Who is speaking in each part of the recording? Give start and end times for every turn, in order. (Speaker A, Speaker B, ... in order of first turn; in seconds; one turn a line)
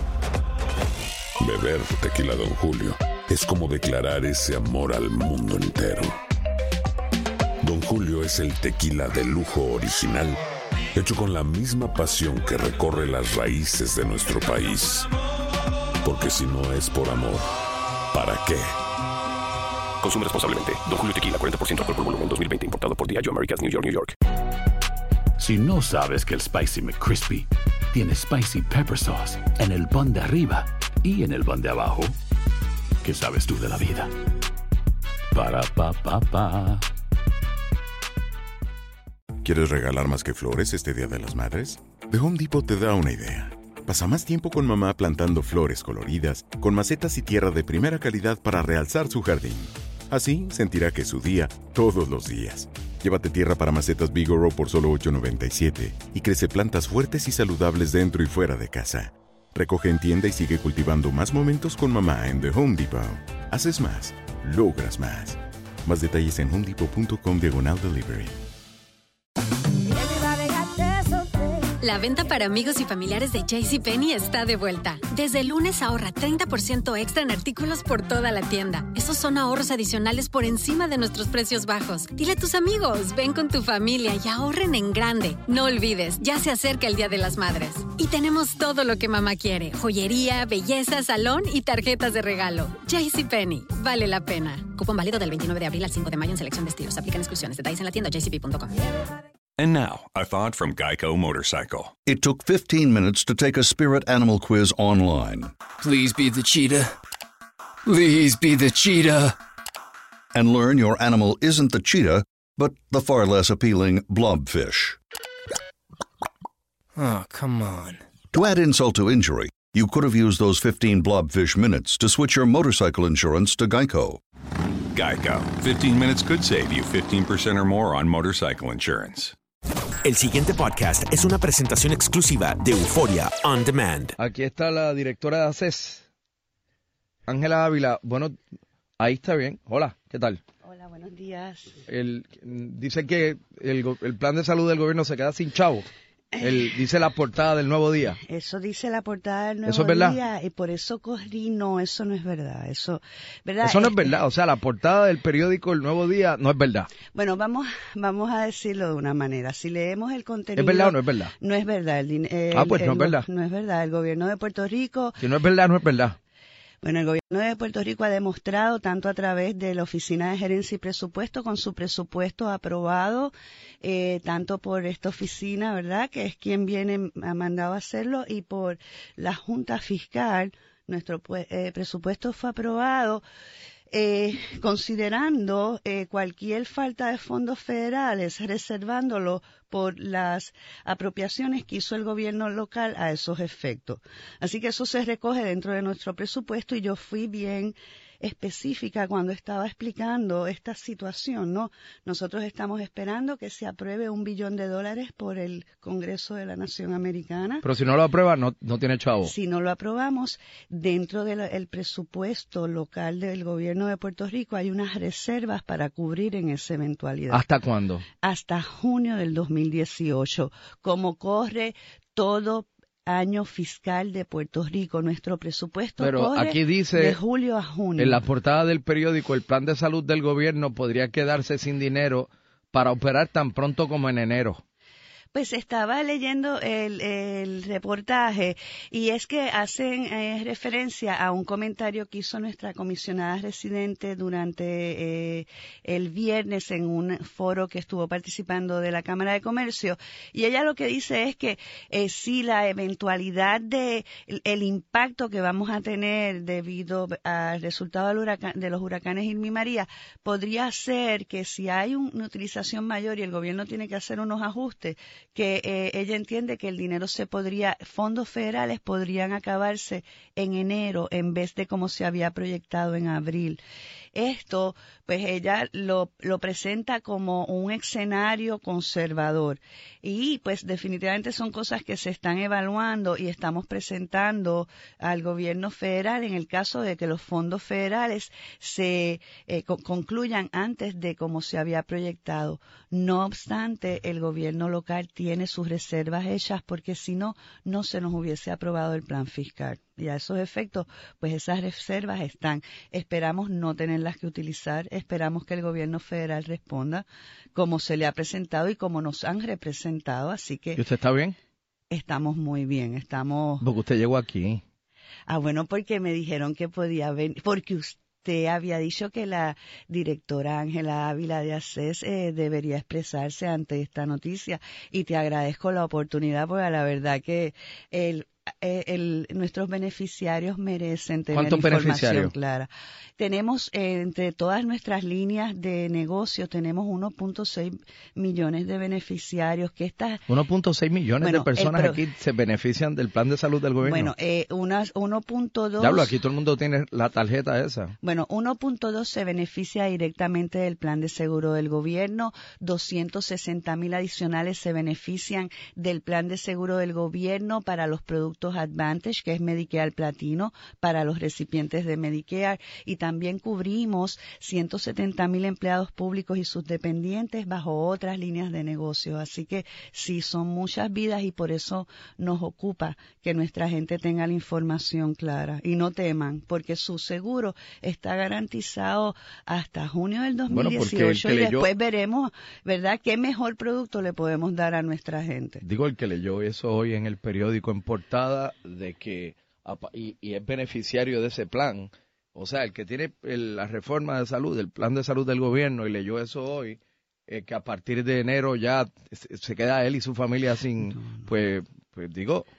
Speaker A: 1.4-6.2
Speaker A: 7.6-10.4
Speaker A: 10.9-15.1
Speaker A: 16.0-17.5
Speaker A: 18.1-18.8
Speaker B: 20.0-24.2
Speaker C: 25.4-32.2
Speaker C: 33.0-34.1
Speaker C: 35.3-36.9
Speaker D: 39.4-68.4
Speaker E: 71.8-98.8
Speaker F: 99.6-101.9
Speaker G: 102.1-105.5
Speaker H: 105.8-106.9
Speaker H: 107.9-109.3
Speaker G: 110.3-115.0
Speaker H: 117.0-118.0
Speaker G: 118.3-124.2
Speaker F: 125.0-129.3
Speaker I: 130.0-134.1
Speaker J: 134.2-136.0
Speaker J: 137.3-138.3
Speaker J: 139.0-140.4
Speaker K: 140.7-141.8
Speaker J: 141.9-145.9
Speaker J: 146.4-148.2
Speaker K: 148.2-154.2
Speaker J: 149.7-150.2
Speaker J: 153.6-156.9
Speaker K: 157.1-165.2
Speaker J: 160.6-161.3
Speaker J: 162.5-163.3
Speaker J: 165.2-166.2
Speaker K: 166.8-183.2
Speaker K: 183.9-207.7
Speaker J: 207.6-209.3
Speaker K: 209.2-217.4
Speaker J: 217.3-218.1
Speaker K: 218.2-228.2
Speaker J: 226.0-227.2
Speaker J: 228.0-234.6
Speaker K: 235.3-273.6
Speaker K: 274.1-310.8
Speaker J: 310.8-311.4
Speaker K: 311.9-313.6
Speaker J: 313.6-314.6
Speaker K: 315.3-340.2
Speaker J: 331.3-332.3
Speaker J: 340.3-344.1
Speaker K: 341.2-342.0
Speaker K: 343.8-346.2
Speaker J: 345.8-347.9
Speaker K: 348.0-385.6
Speaker J: 380.5-381.7
Speaker J: 385.6-402.5
Speaker K: 401.0-401.2